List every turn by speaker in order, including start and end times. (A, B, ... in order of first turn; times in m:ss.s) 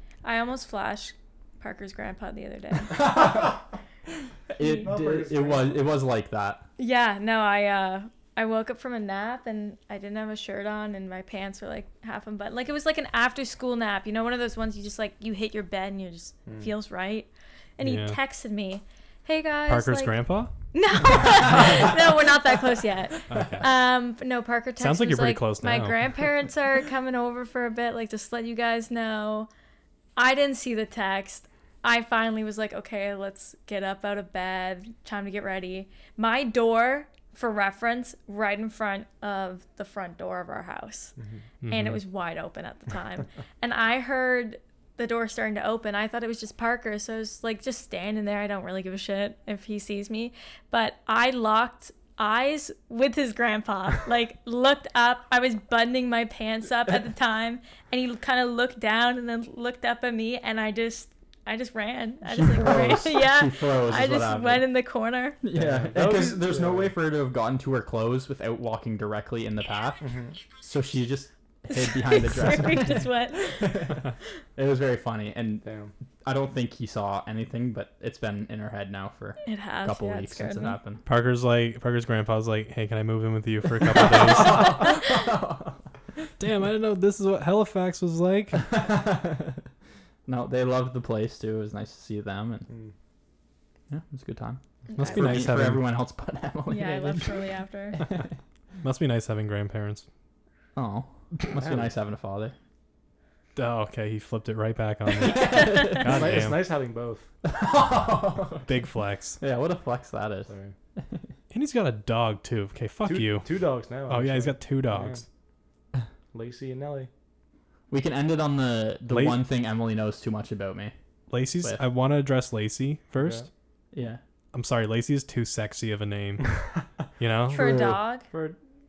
0:00.2-0:03.1 A
0:02.9-0:03.5 B
0:04.5-0:06.6 B
0:04.7-0:05.8 C
0:06.8-0:20.2 A
0:17.8-0:18.2 D
0:19.7-0:20.5 D
0:20.7-0:29.5 A
0:23.3-0:23.7 D
0:24.8-0:26.0 D
0:30.2-0:41.1 A
0:41.2-0:41.4 C
0:41.6-0:42.0 D
0:41.7-1:05.4 A
1:02.2-1:04.6 B
1:05.4-1:10.0 B
1:05.5-1:06.9 C
1:10.0-1:10.4 C
1:10.6-1:15.6 B
1:11.7-1:14.0 A
1:15.6-1:15.9 C
1:16.2-1:21.0 B
1:19.4-1:20.8 A
1:21.0-1:24.8 D
1:23.8-1:25.8 B
1:26.4-1:28.6 D
1:28.6-1:29.6 B
1:30.2-1:32.7 B
1:32.7-1:32.9 C
1:33.9-1:38.3 B
1:34.9-1:35.4 A
1:35.0-1:35.9 D
1:36.7-1:38.0 A
1:38.8-1:40.0 D
1:40.7-1:42.5 B
1:41.6-1:41.9 C
1:43.6-1:46.7 D
1:45.2-1:46.3 B
1:46.0-1:47.3 C
1:47.4-1:48.7 B
1:48.6-1:49.4 D
1:49.4-1:51.2 B
1:50.5-1:50.7 C
1:51.5-1:53.5 D
1:53.0-1:55.2 C
1:54.1-1:55.2 D
1:56.3-1:57.1 C
1:57.9-2:00.9 B
1:59.1-1:59.4 D
2:01.3-2:03.5 D
2:03.2-2:03.5 C
2:03.9-2:04.2 B
2:04.5-2:06.5 D
2:07.2-2:07.9 D
2:07.5-2:08.3 A
2:08.3-2:08.6 C